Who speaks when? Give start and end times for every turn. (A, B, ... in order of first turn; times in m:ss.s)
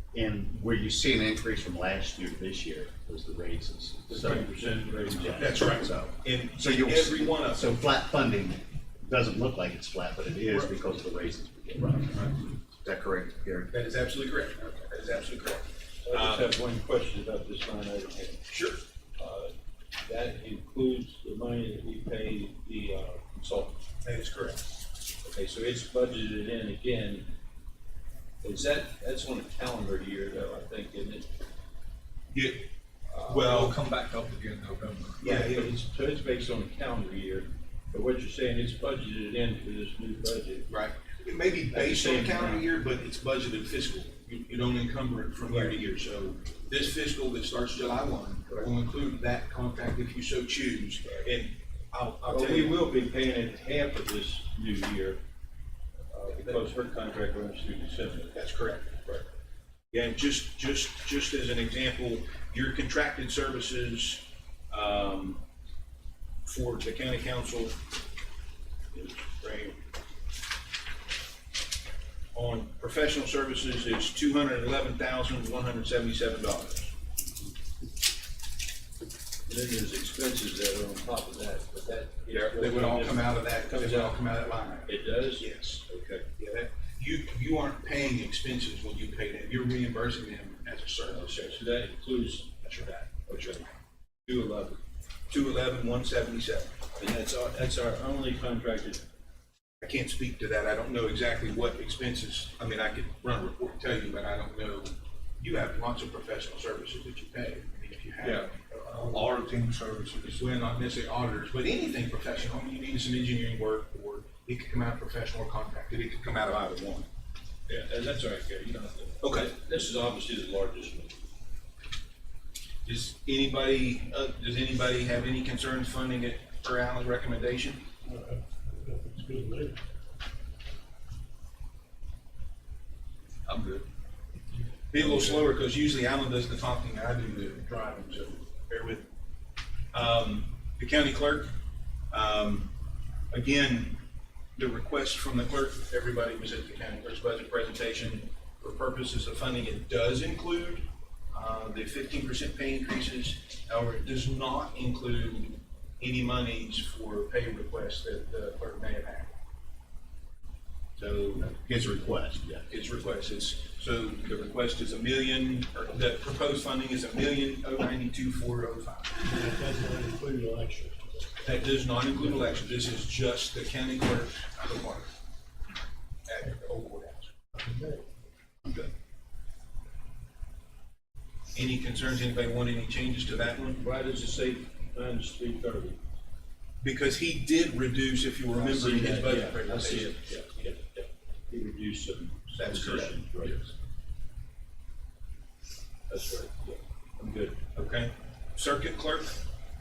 0:00.1-0:13.7 A
0:04.1-0:05.7 B
0:05.3-0:07.7 C
0:13.7-0:16.5 C
0:16.0-0:18.5 B
0:18.5-0:18.8 C
0:19.2-0:19.5 B
0:20.0-0:23.8 B
0:24.0-0:24.6 C
0:25.2-0:27.3 B
0:28.4-0:31.3 B
0:32.3-0:32.7 C
0:33.1-0:33.8 B
0:33.3-0:33.8 C
0:33.3-0:35.2 D
0:35.2-0:35.7 C
0:35.2-0:40.7 B
0:40.7-0:52.8 C
0:41.7-0:42.7 B
0:45.5-0:45.8 B
0:52.3-0:55.2 B
0:56.1-0:58.4 B
0:58.3-0:59.2 C
0:59.9-1:05.4 C
1:06.4-1:07.8 C
1:08.9-1:09.8 C
1:12.4-1:16.9 C
1:19.5-1:24.2 B
1:22.3-1:31.5 C
1:24.9-1:26.2 B
1:31.1-1:33.5 B
1:32.6-1:33.6 C
1:34.3-1:34.8 B
1:35.3-1:36.8 C
1:37.0-1:39.0 B
1:39.8-1:48.8 C
1:48.8-1:50.2 D
1:49.1-1:50.0 B
1:50.2-1:57.1 C
1:57.7-2:01.1 B
1:59.2-1:59.5 C
2:02.8-2:07.8 C
2:08.0-2:09.8 E
2:13.5-2:13.8 B
2:14.9-2:19.1 C
2:19.9-2:21.5 C
2:22.1-2:22.7 C
2:23.3-2:24.0 C
2:24.6-2:39.3 C
2:41.0-2:41.5 C
2:41.4-2:42.7 A
2:42.7-2:49.2 C
2:49.2-2:51.5 E
2:51.4-2:55.1 C
2:56.3-2:57.3 C
2:57.6-2:58.0 E
3:01.5-3:03.8 C
3:03.8-3:06.0 B
3:06.8-3:10.1 C
3:08.5-3:13.7 B
3:12.6-3:13.1 C
3:16.1-3:17.6 B
3:17.7-3:19.4 C